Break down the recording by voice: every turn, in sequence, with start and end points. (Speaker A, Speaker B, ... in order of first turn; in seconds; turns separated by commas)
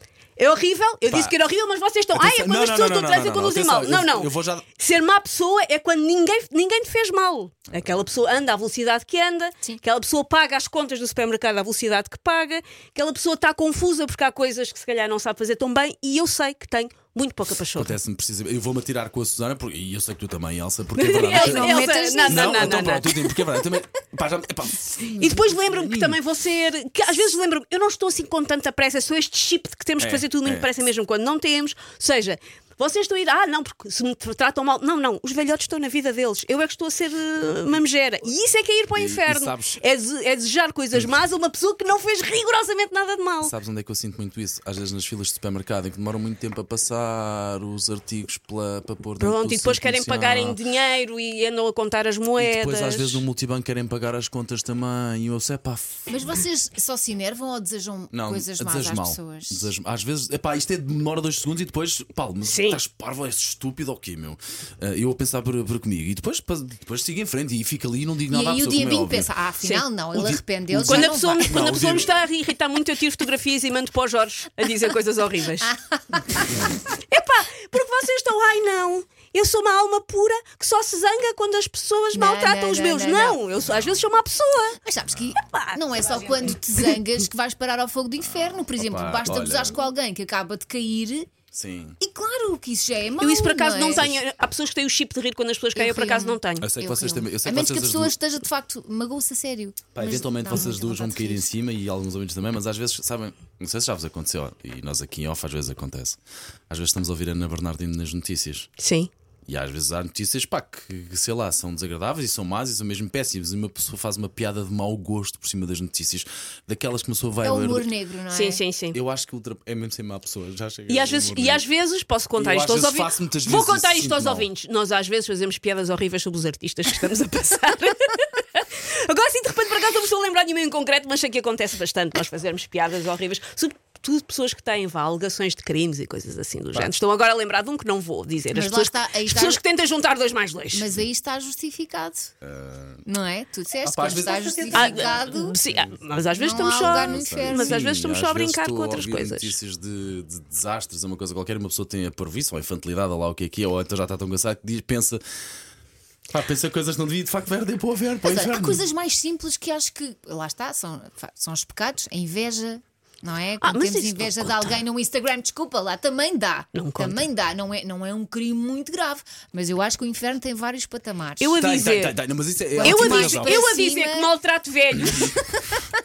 Speaker A: 0.4-18.0, Speaker B: 1.0-1.4, Speaker B: 2.1-4.6, Speaker B: 17.7-26.2, Speaker A: 20.9-23.1, Speaker C: 21.2-23.8, Speaker A: 25.1-43.5, Speaker B: 30.0-30.7, Speaker B: 38.9-39.8, Speaker B: 43.4-50.6, Speaker A: 49.2-53.2, Speaker B: 52.4-56.1, Speaker C: 56.1-59.7, Speaker B: 58.1-72.2, Speaker A: 62.4-62.8, Speaker C: 68.3-71.5, Speaker A: 70.8-75.7, Speaker C: 75.6-76.6, Speaker A: 77.0-84.8, Speaker C: 82.1-83.4, Speaker C: 84.8-91.3, Speaker A: 85.3-86.5, Speaker B: 88.2-89.8, Speaker B: 91.5-92.0, Speaker C: 92.0-94.1, Speaker A: 93.2-96.7, Speaker B: 93.9-94.2, Speaker C: 95.7-101.5, Speaker B: 96.6-98.2, Speaker B: 99.9-106.2, Speaker B: 106.7-108.7, Speaker A: 108.8-109.1, Speaker B: 109.5-117.9, Speaker C: 117.4-118.6, Speaker A: 118.3-119.0, Speaker B: 118.9-121.7, Speaker A: 120.9-140.9, Speaker B: 122.3-124.5, Speaker C: 138.5-139.6, Speaker C: 140.7-142.3, Speaker B: 142.4-143.0, Speaker C: 143.1-145.6, Speaker B: 143.8-146.0, Speaker A: 144.7-149.5, Speaker C: 146.3-147.8, Speaker B: 146.6-155.2, Speaker B: 156.3-158.8, Speaker C: 158.2-171.6, Speaker A: 163.6-164.8, Speaker A: 166.7-167.2, Speaker A: 171.4-172.2, Speaker B: 171.6-173.6, Speaker C: 172.7-174.3, Speaker A: 172.8-175.3, Speaker C: 175.2-175.9